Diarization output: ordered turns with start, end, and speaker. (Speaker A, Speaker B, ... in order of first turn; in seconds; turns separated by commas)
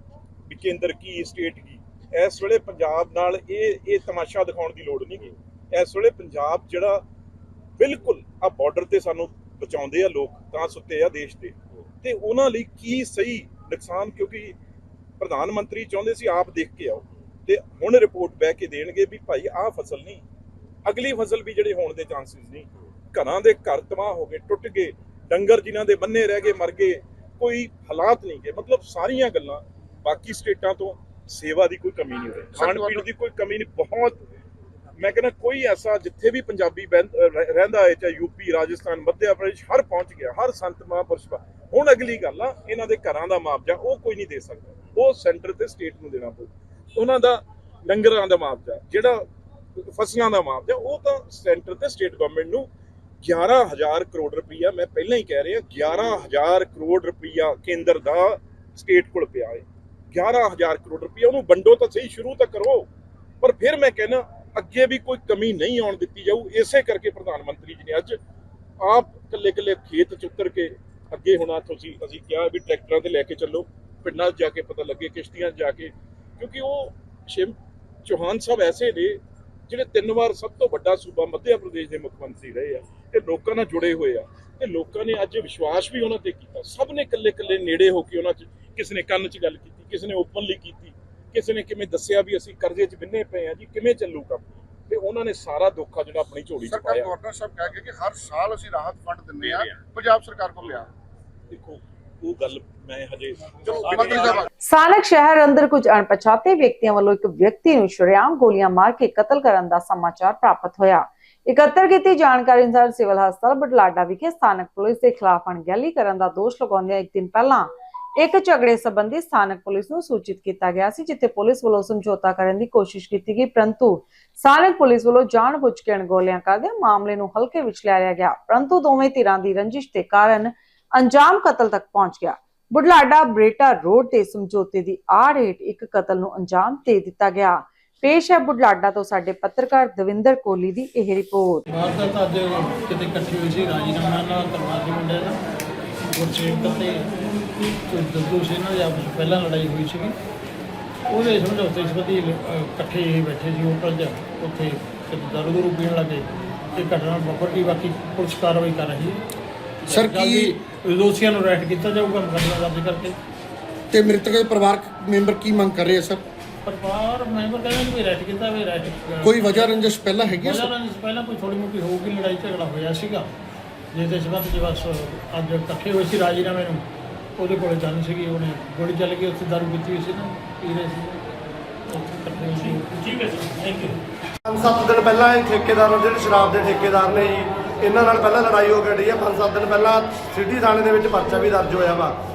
Speaker A: 0.5-7.0, Speaker A: 7.8-14.5, Speaker A: 15.2-20.2, Speaker A: 20.9-34.2, Speaker B: 32.5-33.1, Speaker A: 35.0-49.2, Speaker A: 49.8-52.7, Speaker A: 53.2-62.9, Speaker A: 63.4-68.2, Speaker A: 68.8-97.2, Speaker B: 96.7-100.9, Speaker A: 99.4-99.8, Speaker A: 101.5-104.4, Speaker B: 103.8-104.5, Speaker C: 104.7-141.6, Speaker D: 141.7-145.4, Speaker D: 146.1-147.1, Speaker D: 147.7-150.2, Speaker D: 151.1-159.2, Speaker D: 159.8-163.2, Speaker E: 159.9-160.6, Speaker E: 163.9-166.2, Speaker D: 166.7-173.3, Speaker E: 169.2-170.7, Speaker D: 173.9-176.8, Speaker D: 177.4-181.2, Speaker D: 181.9-184.0, Speaker F: 184.5-192.2